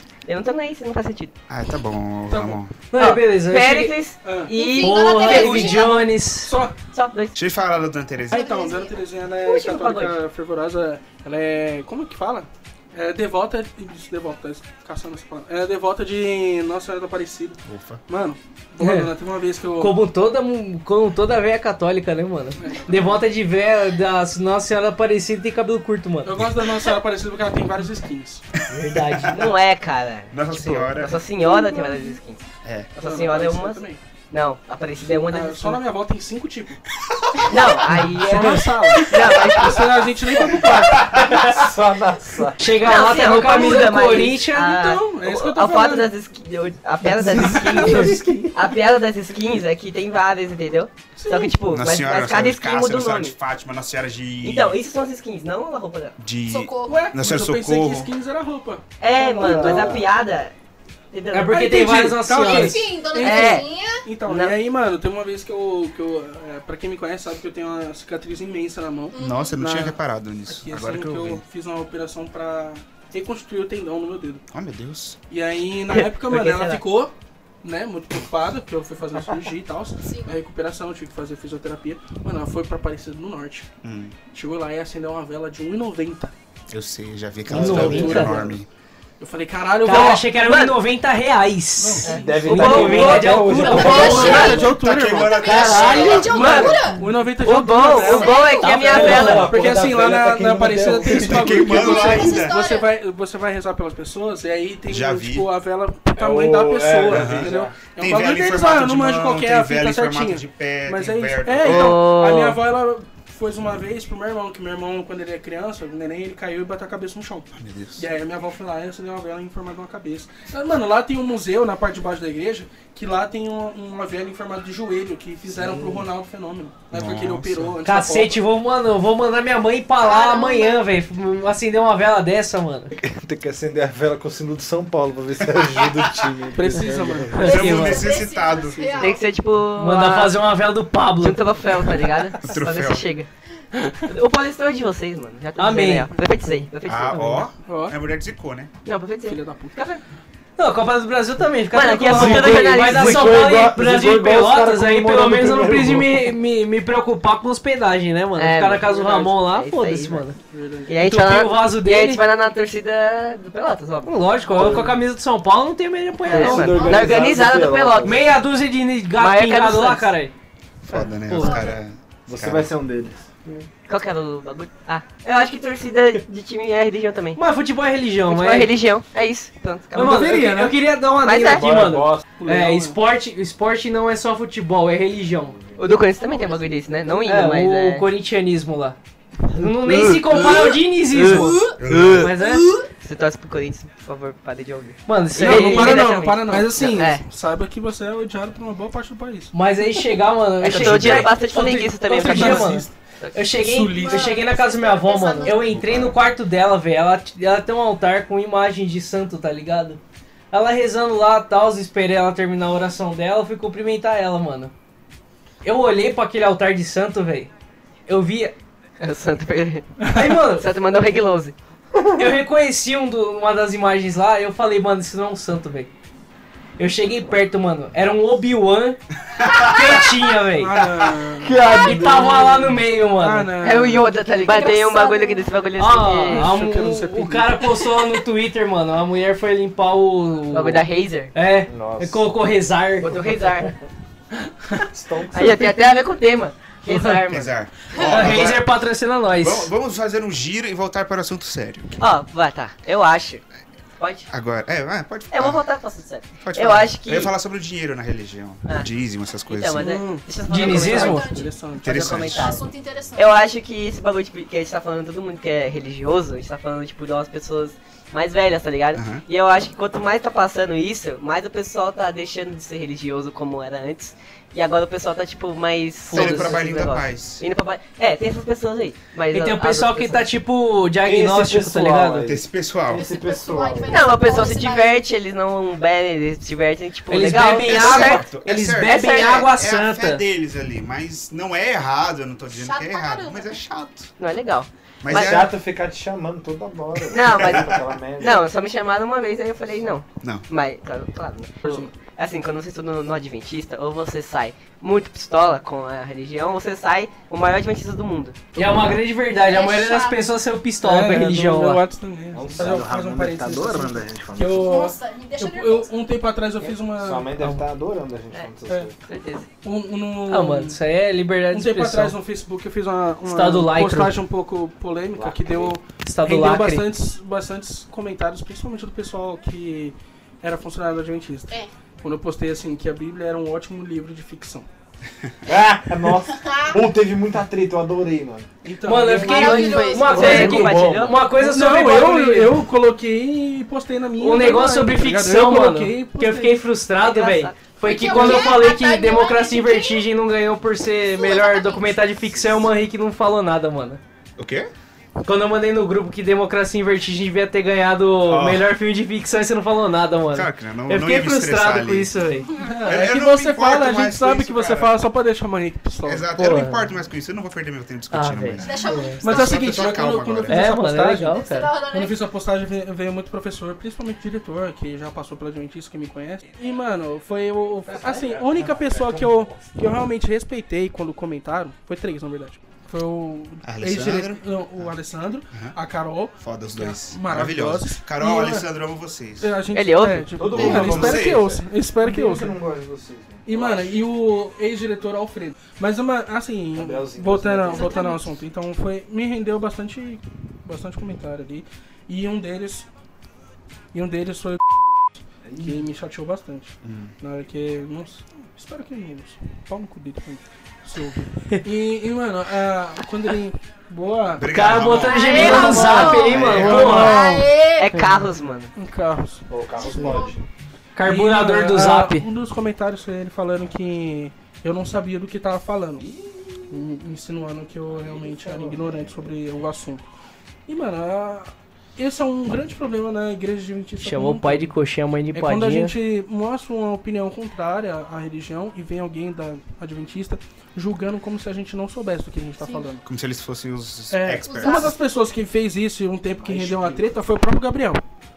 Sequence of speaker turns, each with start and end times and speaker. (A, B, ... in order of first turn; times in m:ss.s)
0:00.2-0:01.3 A
0:01.5-0:02.8 B
0:02.3-0:02.6 C
0:02.9-0:04.0 D
0:02.9-0:06.0 A
0:04.2-0:04.5 C
0:04.5-0:06.0 E
0:04.7-0:06.5 D
0:06.4-0:06.7 C
0:06.9-0:07.4 A
0:07.4-0:08.6 B
0:08.3-0:09.0 E
0:08.3-0:20.0 C
0:09.4-0:10.2 A
0:17.6-0:18.0 B
0:18.8-0:19.1 D
0:19.8-0:26.4 D
0:22.6-0:23.1 C
0:26.2-0:28.4 C
0:28.7-0:29.5 D
0:29.3-0:35.8 A
0:30.3-0:31.2 B
0:31.4-0:32.0 E
0:32.6-0:32.9 B
0:33.0-0:34.0 C
0:35.0-0:36.8 C
0:37.4-0:40.0 A
0:38.0-0:41.1 C
0:40.8-0:42.6 F
0:40.9-0:41.2 B
0:42.6-0:44.8 D
0:42.8-0:53.4 A
0:43.4-0:44.0 C
0:44.6-0:46.1 C
0:47.1-0:48.6 F
0:47.2-0:48.5 C
0:51.2-0:51.6 C
0:51.7-0:54.8 B
0:54.4-0:56.2 A
0:56.2-0:58.1 B
0:56.4-0:57.1 E
0:56.8-1:00.0 C
0:59.0-1:00.5 A
0:59.4-1:00.0 F
1:01.1-1:01.9 A
1:01.3-1:02.8 D
1:01.5-1:14.4 C
1:02.4-1:04.0 E
1:03.2-1:03.7 A
1:04.3-1:04.5 A
1:09.1-1:09.7 E
1:09.1-1:11.4 B
1:14.5-1:15.2 B
1:15.3-1:23.7 C
1:15.9-1:16.8 A
1:20.0-1:20.4 E
1:23.8-1:24.1 B
1:24.3-1:26.3 C
1:26.7-1:28.7 B
1:27.5-1:28.4 F
1:27.5-1:28.4 D
1:27.5-1:28.6 C
1:29.2-1:30.2 C
1:29.8-1:34.5 D
1:29.9-1:30.8 A
1:31.8-1:35.6 C
1:32.0-1:34.7 A
1:32.1-1:34.6 F
1:33.5-1:37.1 E
1:34.3-1:36.8 B
1:35.5-1:36.9 A
1:36.2-2:08.4 C
1:37.4-1:39.6 A
1:37.8-1:38.9 E
1:38.5-1:39.5 D
1:38.9-1:41.6 F
1:41.1-1:42.6 B
1:41.5-1:42.9 E
1:44.9-1:45.5 B
1:46.2-1:47.8 F
1:47.1-1:52.0 B
1:51.6-1:52.6 A
1:57.5-1:58.0 B
2:05.5-2:06.1 F
2:06.9-2:07.8 B
2:07.8-2:12.9 D
2:10.0-2:10.8 E
2:13.0-2:17.5 F
2:16.5-2:19.1 C
2:17.4-2:18.0 D
2:17.4-2:19.1 B
2:17.4-2:19.3 E
2:19.0-2:20.4 A
2:19.8-2:21.4 D
2:21.2-2:27.4 A
2:22.4-2:23.1 B
2:25.6-2:26.1 D
2:26.8-2:28.7 B
2:27.6-2:28.0 C
2:28.8-2:30.0 A
2:29.2-2:29.8 C
2:30.6-2:40.4 D
2:31.7-2:33.6 A
2:32.1-2:36.3 F
2:38.4-2:40.2 A
2:40.5-2:41.0 C
2:40.9-2:44.8 A
2:41.0-2:42.2 D
2:44.0-2:47.2 D
2:44.5-2:45.0 F
2:46.3-2:48.3 A
2:46.3-2:48.2 F
2:46.7-2:47.1 E
2:48.0-2:50.3 D
2:49.2-2:50.1 A
2:50.8-2:52.7 B
2:50.9-2:51.7 D
2:51.4-2:51.7 E
2:52.3-2:53.2 F
2:53.9-2:57.4 A
2:57.3-2:58.7 D
2:58.3-3:00.5 A
2:59.9-3:05.6 D
3:00.1-3:00.7 C
3:01.2-3:01.7 A
3:01.3-3:02.2 F
3:02.4-3:03.0 C
3:05.8-3:08.0 A
3:06.3-3:06.6 E
3:07.2-3:09.0 D
3:09.5-3:12.7 D
3:09.6-3:10.6 A
3:11.2-3:11.7 C
3:11.8-3:12.3 B
3:12.4-3:12.8 C
3:13.0-3:17.2 A
3:15.0-3:16.3 D
3:15.4-3:19.5 C
3:19.5-3:30.0 D
3:20.6-3:23.5 A
3:20.8-3:21.2 C
3:22.1-3:22.9 C
3:23.6-3:24.3 C
3:23.9-3:26.0 E
3:25.5-3:26.2 B
3:30.5-3:34.7 D
3:35.6-3:37.5 D
3:38.1-3:38.5 D
3:39.0-3:41.6 A
3:40.1-3:40.7 D
3:42.1-3:45.9 D
3:46.8-3:50.7 D
3:49.3-3:50.0 B
3:50.6-3:51.6 C
3:51.4-3:52.7 F
3:51.7-3:53.5 D
3:53.2-3:54.0 C
3:53.6-3:56.4 A
3:54.0-3:55.5 E
3:55.8-4:03.4 D
3:56.3-3:57.6 C
4:00.5-4:01.3 A
4:01.7-4:02.3 F
4:03.0-4:03.7 A
4:04.8-4:05.9 F
4:05.3-4:07.9 A
4:07.3-4:08.7 B
4:07.9-4:09.7 D
4:09.4-4:12.0 B
4:12.0-4:13.4 A
4:14.0-4:14.3 A
4:14.3-4:15.6 B
4:15.3-4:17.3 A
4:16.4-4:20.0 B
4:19.5-4:22.6 A
4:19.8-4:22.0 C
4:20.5-4:21.3 D
4:20.5-4:23.5 E
4:21.8-4:22.5 B
4:23.2-4:40.3 A
4:28.9-4:29.2 B
4:36.1-4:36.6 D
4:36.1-4:37.4 B
4:39.3-4:42.3 D
4:41.0-4:44.0 F
4:42.3-4:43.1 B
4:42.9-4:45.0 E
4:43.9-4:49.5 A
4:47.1-4:50.2 D
4:47.3-4:54.1 B
4:52.5-4:53.6 E
4:54.2-4:55.4 A
4:55.0-4:55.5 B
4:55.1-4:58.5 F
4:57.1-5:08.4 A
5:00.2-5:00.4 B
5:01.6-5:01.9 C
5:08.5-5:11.8 D
5:09.3-5:10.2 E
5:10.8-5:17.3 C
5:12.3-5:14.9 F
5:14.6-5:15.9 E
5:17.0-5:18.9 F
5:19.0-5:19.5 A
5:19.6-5:20.8 C
5:20.3-5:22.1 D
5:21.5-5:34.6 C
5:23.2-5:24.2 D
5:25.1-5:25.8 F
5:26.0-5:26.9 D
5:35.4-5:38.5 F
5:36.4-5:36.8 E
5:38.6-5:40.6 C
5:38.8-5:42.6 D
5:39.2-5:40.6 E
5:39.3-5:41.2 A
5:40.1-5:41.2 F
5:41.4-5:46.6 C
5:44.2-5:54.0 D
5:47.0-5:47.8 A
5:47.8-5:50.1 E
5:51.1-5:52.6 E
5:54.4-5:54.7 B
5:55.2-6:02.5 D
5:58.2-5:58.7 B
6:00.3-6:02.1 B
6:02.6-6:06.3 C
6:02.8-6:04.9 B
6:06.0-6:10.6 B
6:06.4-6:06.9 D
6:08.1-6:09.2 D
6:08.6-6:10.0 E
6:09.2-6:28.7 C
6:10.5-6:11.7 D
6:11.1-6:12.3 E
6:17.8-6:19.7 F
6:23.6-6:24.9 B
6:26.4-6:29.6 B
6:29.4-6:32.5 C
6:29.7-6:31.0 A
6:30.4-6:33.9 F
6:30.5-6:31.5 B
6:33.4-6:42.9 C
6:36.7-6:38.0 F
6:37.7-6:38.3 E
6:43.9-6:54.5 C
6:45.4-6:45.8 F
6:46.8-6:47.1 B
6:54.4-6:57.0 B
6:54.5-6:57.2 D
6:54.9-6:58.0 E
6:55.3-6:57.5 C
6:57.8-6:58.7 A
6:58.7-7:00.2 C
6:59.5-7:00.4 F
6:59.7-7:00.4 E
7:00.9-7:02.3 D
7:01.0-7:06.1 C
7:06.0-7:06.7 F
7:06.7-7:10.1 C
7:07.9-7:09.4 F
7:10.7-7:14.7 C
7:14.0-7:15.9 D
7:15.3-7:23.0 C
7:22.6-7:22.9 E
7:23.0-7:24.9 B
7:24.1-7:28.0 C
7:24.4-7:25.0 E
7:26.4-7:27.1 F